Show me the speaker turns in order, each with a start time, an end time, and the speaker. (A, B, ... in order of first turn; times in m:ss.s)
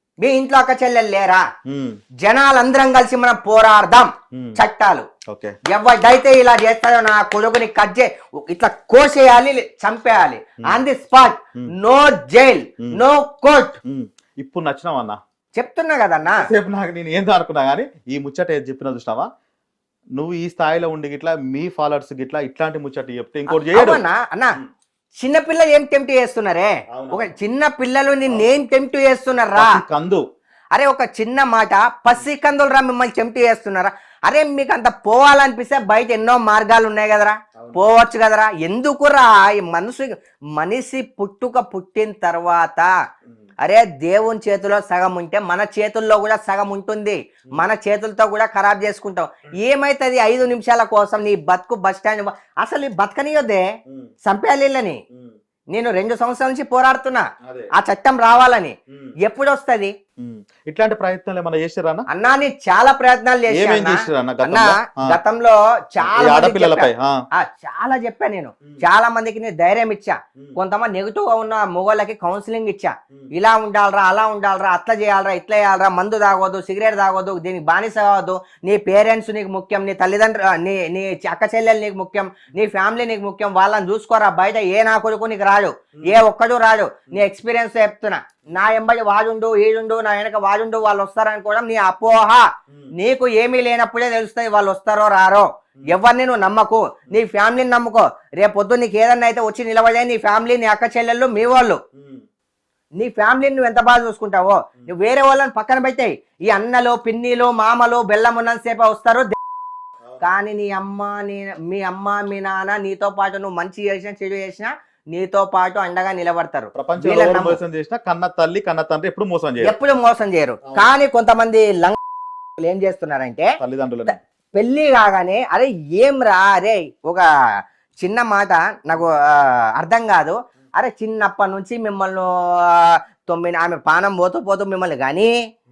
0:00.2-0:01.4 A
0:01.7-0:02.0 B
0:02.2-0:05.1 A
0:05.3-0:05.6 B
0:05.7-0:13.8 A
0:13.9-0:15.2 B
0:15.6-0:16.4 A
0:16.3-0:19.3 B
0:20.2-0:24.0 B
0:23.5-0:24.6 A
0:25.2-0:29.8 A
0:26.9-0:27.4 B
0:29.6-0:30.2 B
0:30.7-0:42.9 A
0:43.6-0:53.7 A
0:54.2-0:55.0 A
0:55.7-0:57.2 A
0:57.4-0:57.7 B
0:57.8-0:59.9 A
1:00.2-1:02.0 B
1:02.1-1:41.8 A
1:03.5-1:05.2 B
1:06.0-1:07.2 B
1:41.9-1:42.2 B
1:43.0-1:49.4 A
1:50.2-1:57.6 A
1:56.8-1:59.8 B
1:59.6-2:02.0 A
2:02.6-2:03.5 A
2:03.6-2:04.2 B
2:04.1-2:07.3 A
2:08.0-2:15.3 A